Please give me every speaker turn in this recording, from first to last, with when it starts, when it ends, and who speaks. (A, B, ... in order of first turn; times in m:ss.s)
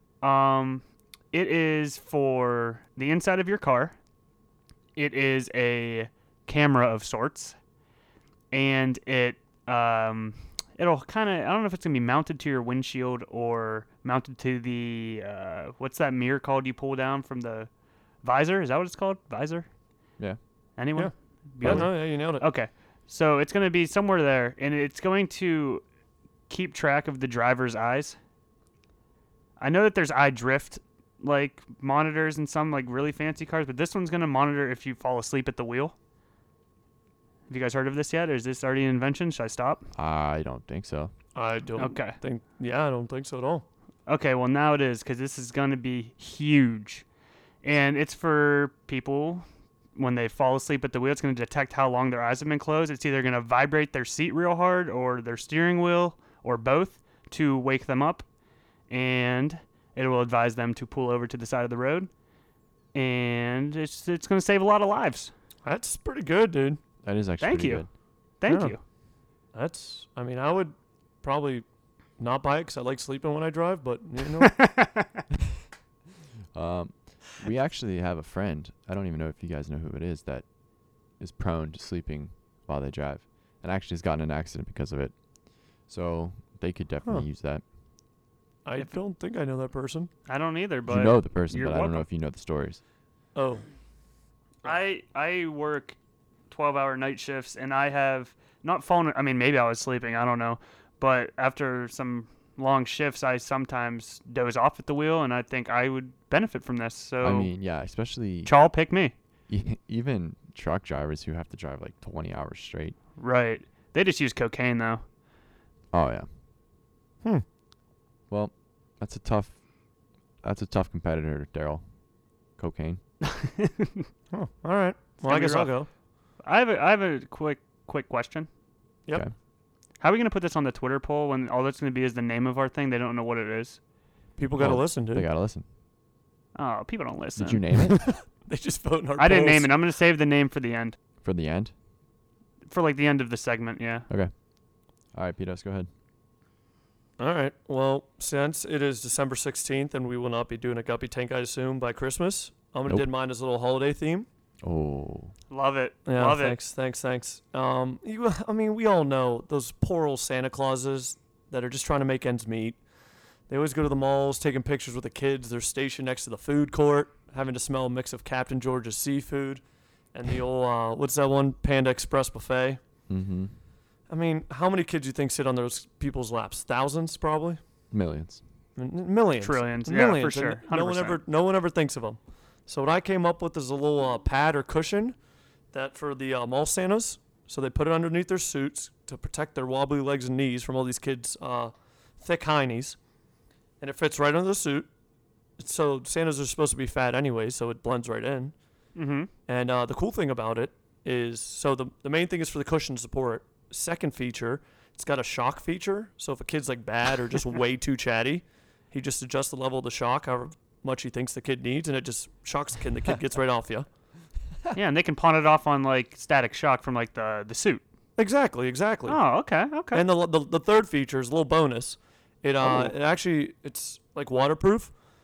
0:00.2-0:03.9 A
0:05.0-0:07.6 A
0:08.5-0:17.7 A
0:18.2-0:19.7 A
0:20.8-0:25.8 A
0:21.0-0:22.4 B
0:21.6-0:21.9 C
0:26.5-0:28.2 A
0:29.6-0:35.9 A
0:37.5-0:39.8 A
0:39.9-0:41.1 C
0:41.3-0:43.6 B
0:41.8-0:42.2 A
0:44.1-0:47.0 A
0:47.6-0:49.4 A
0:50.0-0:58.2 A
0:58.9-1:02.1 A
1:02.9-1:05.3 A
1:05.6-1:06.8 B
1:07.0-1:07.9 C
1:07.4-1:07.8 A
1:08.4-1:08.8 A
1:08.5-1:08.7 B
1:09.5-1:11.6 B
1:12.2-1:14.5 B
1:14.4-1:15.2 A
1:16.5-1:20.4 C
1:21.2-1:25.1 C
1:25.9-1:27.6 C
1:28.6-1:30.1 B
1:30.3-1:32.0 A
1:30.9-1:32.8 C
1:33.3-1:33.6 B
1:34.6-1:36.0 A
1:36.5-1:47.5 A
1:47.2-1:48.5 C
1:48.4-1:49.1 A
1:49.5-1:53.0 C
1:53.2-1:55.0 A
1:55.9-1:56.3 C
1:58.3-1:59.6 C
2:00.4-2:01.8 C
2:02.6-2:03.0 C
2:03.2-2:04.0 A
2:04.3-2:05.9 B
2:05.2-2:05.7 A
2:06.4-2:08.5 A
2:10.0-2:13.8 A
2:14.4-2:15.3 B
2:14.6-2:15.6 C
2:16.5-2:17.6 A
2:17.4-2:18.0 C
2:17.9-2:19.7 B
2:19.2-2:21.0 A
2:21.2-2:21.7 C
2:22.7-2:24.1 A
2:25.1-2:25.9 C
2:27.2-2:34.3 B
2:34.6-2:35.3 C
2:35.5-2:36.6 A
2:36.1-2:42.8 B
2:43.5-2:49.6 B
2:50.1-2:52.8 B
2:53.1-2:53.5 C
2:54.1-2:57.6 B
2:57.9-2:58.4 C
2:58.8-3:05.2 B
2:59.4-3:01.2 A
3:05.7-3:13.0 B
3:13.8-3:14.9 B
3:15.6-3:18.5 B
3:18.9-3:19.3 A
3:19.5-3:33.9 B
3:34.7-3:37.8 A
3:38.2-3:39.2 B
3:39.1-3:40.0 A
3:39.9-3:44.9 B